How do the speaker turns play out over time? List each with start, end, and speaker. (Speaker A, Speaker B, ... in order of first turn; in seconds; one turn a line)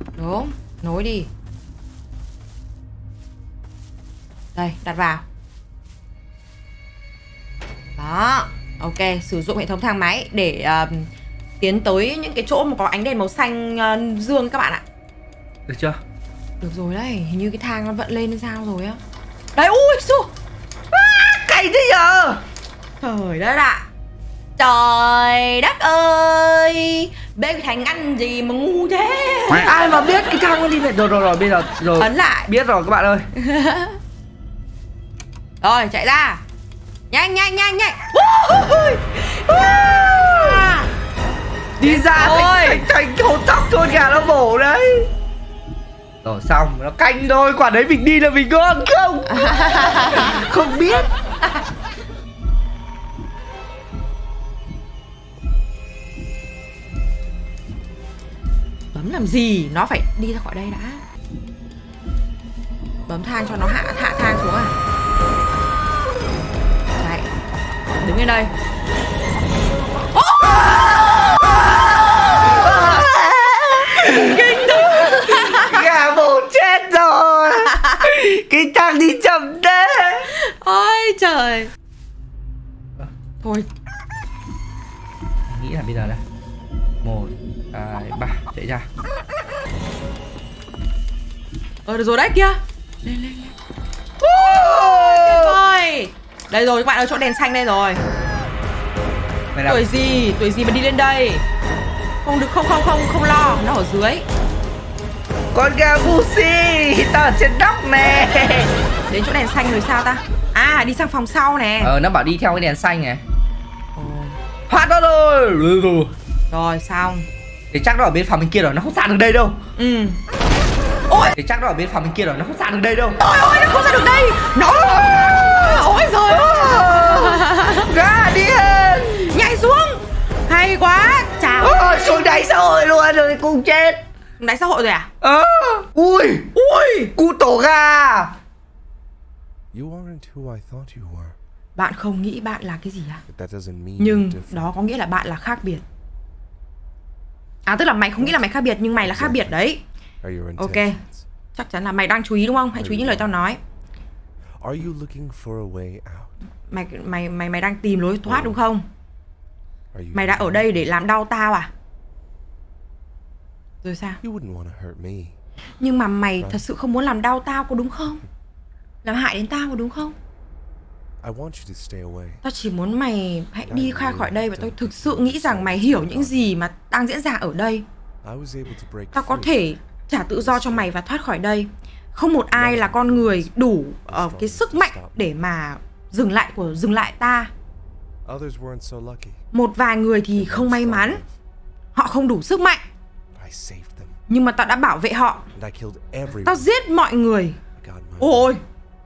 Speaker A: 0.2-1.3
Speaker A: 4.5-5.2
Speaker A: 8.0-11.1
Speaker A: 11.6-14.8
Speaker B: 15.7-16.0
Speaker A: 16.6-19.0
Speaker A: 19.6-20.3
Speaker B: 20.9-22.4
Speaker A: 23.0-23.9
Speaker A: 24.6-29.7
Speaker B: 29.6-33.3
Speaker A: 32.0-32.5
Speaker A: 33.4-34.0
Speaker A: 35.6-36.4
Speaker A: 37.1-40.9
Speaker B: 39.5-40.7
Speaker A: 41.8-42.8
Speaker B: 41.8-45.1
Speaker B: 46.2-49.5
Speaker A: 49.3-50.5
Speaker B: 50.1-51.1
Speaker A: 58.9-61.0
Speaker A: 63.1-64.7
Speaker A: 67.0-67.3
Speaker A: 68.0-68.5
Speaker A: 70.2-70.8
Speaker B: 70.4-80.3
Speaker A: 73.8-75.8
Speaker A: 80.4-81.7
Speaker A: 83.4-83.7
Speaker B: 85.5-86.2
Speaker B: 87.0-88.9
Speaker A: 91.8-93.5
Speaker B: 94.2-95.6
Speaker A: 94.5-98.0
Speaker B: 99.5-99.9
Speaker A: 99.7-101.4
Speaker A: 102.2-104.2
Speaker B: 105.5-108.7
Speaker A: 109.1-111.9
Speaker B: 111.8-113.2
Speaker A: 114.0-114.4
Speaker B: 114.7-116.1
Speaker A: 116.5-117.3
Speaker B: 117.7-119.6
Speaker A: 119.8-120.2
Speaker A: 121.1-121.3
Speaker B: 121.4-123.2
Speaker A: 123.2-127.9
Speaker B: 124.8-129.3
Speaker A: 129.3-132.1
Speaker B: 131.6-134.0
Speaker A: 134.4-135.1
Speaker B: 135.2-136.5
Speaker A: 136.6-137.1
Speaker B: 137.2-138.3
Speaker C: 139.7-141.4
Speaker A: 141.8-143.2
Speaker C: 143.3-144.7
Speaker A: 144.0-145.8
Speaker A: 147.7-149.8
Speaker C: 148.2-148.4
Speaker C: 149.0-149.6
Speaker C: 150.2-151.3
Speaker A: 150.6-151.0
Speaker A: 151.6-153.6
Speaker C: 152.7-153.3
Speaker C: 154.6-156.4
Speaker A: 156.7-158.8
Speaker C: 158.2-158.6
Speaker C: 159.9-160.9
Speaker A: 160.2-161.7
Speaker A: 163.8-164.2
Speaker C: 164.2-165.4
Speaker A: 165.8-168.2
Speaker A: 169.0-170.2
Speaker C: 171.2-172.4
Speaker A: 172.4-177.8
Speaker C: 173.7-176.6
Speaker C: 178.2-179.7
Speaker A: 179.2-187.5
Speaker C: 180.3-180.9
Speaker C: 182.5-185.2
Speaker C: 188.2-189.4
Speaker A: 189.5-191.2
Speaker C: 190.3-191.3
Speaker A: 191.9-192.8
Speaker C: 193.3-194.2
Speaker A: 194.3-195.4
Speaker C: 195.5-196.7
Speaker A: 196.4-197.6
Speaker C: 197.8-198.6
Speaker A: 198.2-198.6